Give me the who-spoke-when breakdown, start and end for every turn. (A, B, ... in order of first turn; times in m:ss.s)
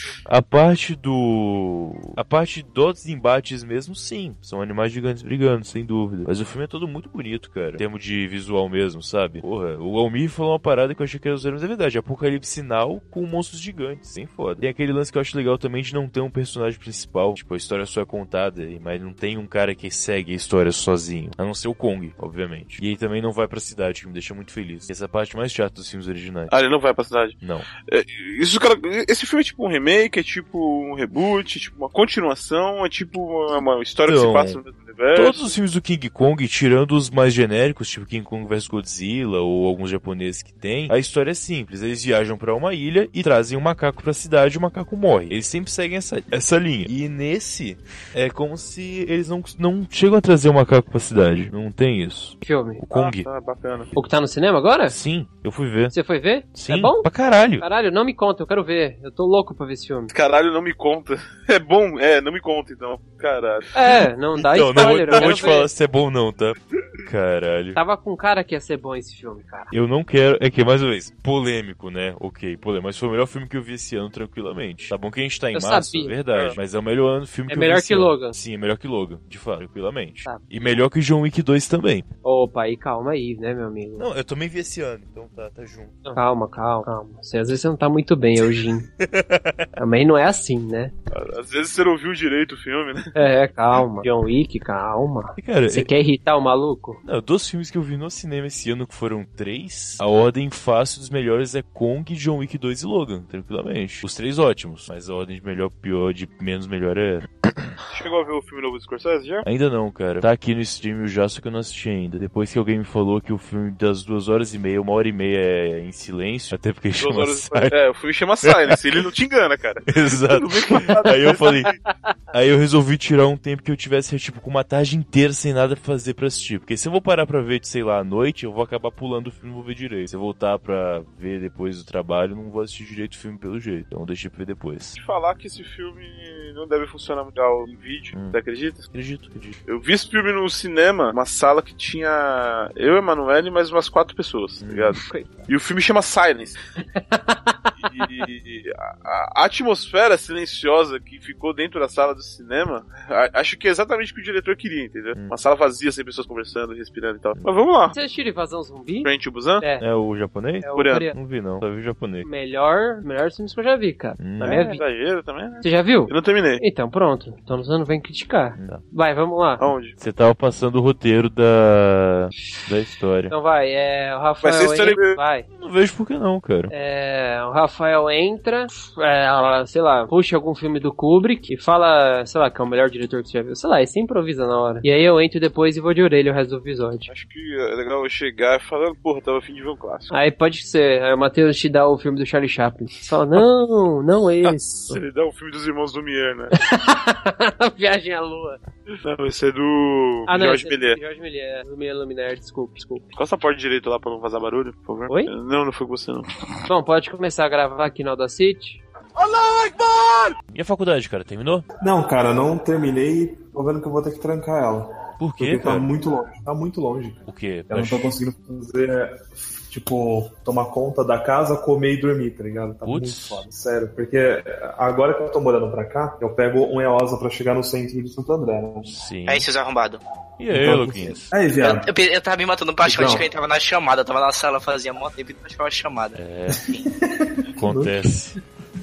0:00.3-0:26.5 A
0:26.5-0:35.5 B
0:27.4-0:27.7 A
0:34.1-0:34.6 A
0:35.1-0:53.3 A
0:52.4-0:52.8 C
0:52.9-0:53.9 B
0:54.0-0:55.0 C
0:54.9-0:56.0 A
0:55.9-0:57.1 C
0:56.6-0:57.7 A
0:57.6-1:00.1 C
1:00.1-1:03.7 B
1:03.7-1:05.7 C
1:04.4-1:07.8 A
1:05.1-1:05.6 B
1:07.8-1:09.7 C
1:09.7-1:22.1 A
1:15.5-1:16.1 C
1:17.5-1:18.4 C
1:22.2-1:24.1 C
1:24.0-1:26.0 A
1:26.1-1:28.9 C
1:29.0-1:29.7 A
1:29.8-1:30.9 C
1:31.1-1:33.2 B
1:33.2-1:37.0 C
1:35.4-1:35.9 A
1:37.0-1:47.7 A
1:47.9-1:49.5 B
1:49.4-1:57.8 A
1:57.0-2:01.7 B
1:58.4-1:58.8 A
1:59.9-2:01.7 A
2:02.3-2:15.0 A
2:15.0-2:18.8 B
2:18.1-2:18.4 A
2:18.9-2:19.6 A
2:19.7-2:26.6 B
2:24.6-2:25.0 A
2:27.0-2:28.1 C
2:27.8-2:38.0 B
2:37.9-2:39.8 C
2:39.0-2:39.6 B
2:39.8-2:42.3 A
2:40.6-2:41.1 C
2:40.8-2:41.1 B
2:42.2-2:44.8 C
2:44.2-2:44.7 A
2:44.4-2:46.6 B
2:45.6-2:49.7 C
2:48.6-2:48.8 A
2:49.6-2:50.0 B
2:50.0-2:53.3 A
2:53.3-2:55.5 C
2:54.4-2:55.2 B
2:55.6-2:56.7 A
2:56.7-3:07.1 C
3:07.1-3:10.1 B
3:10.1-3:15.0 C
3:14.5-3:16.5 B
3:16.5-3:18.6 C
3:19.0-3:21.0 B
3:20.3-3:23.1 C
3:23.1-3:26.3 B
3:26.7-3:28.8 C
3:30.5-3:31.7 A
3:31.8-3:48.9 D
3:35.2-3:35.9 A
3:37.3-3:38.1 A
3:42.8-3:43.4 A
3:48.8-3:49.5 A
3:49.3-3:50.0 E
3:50.4-3:51.3 A
3:50.5-3:51.9 D
3:51.6-3:56.8 E
3:52.8-3:53.3 D
3:56.2-3:56.6 A
3:56.5-3:58.0 D
3:57.6-3:58.4 A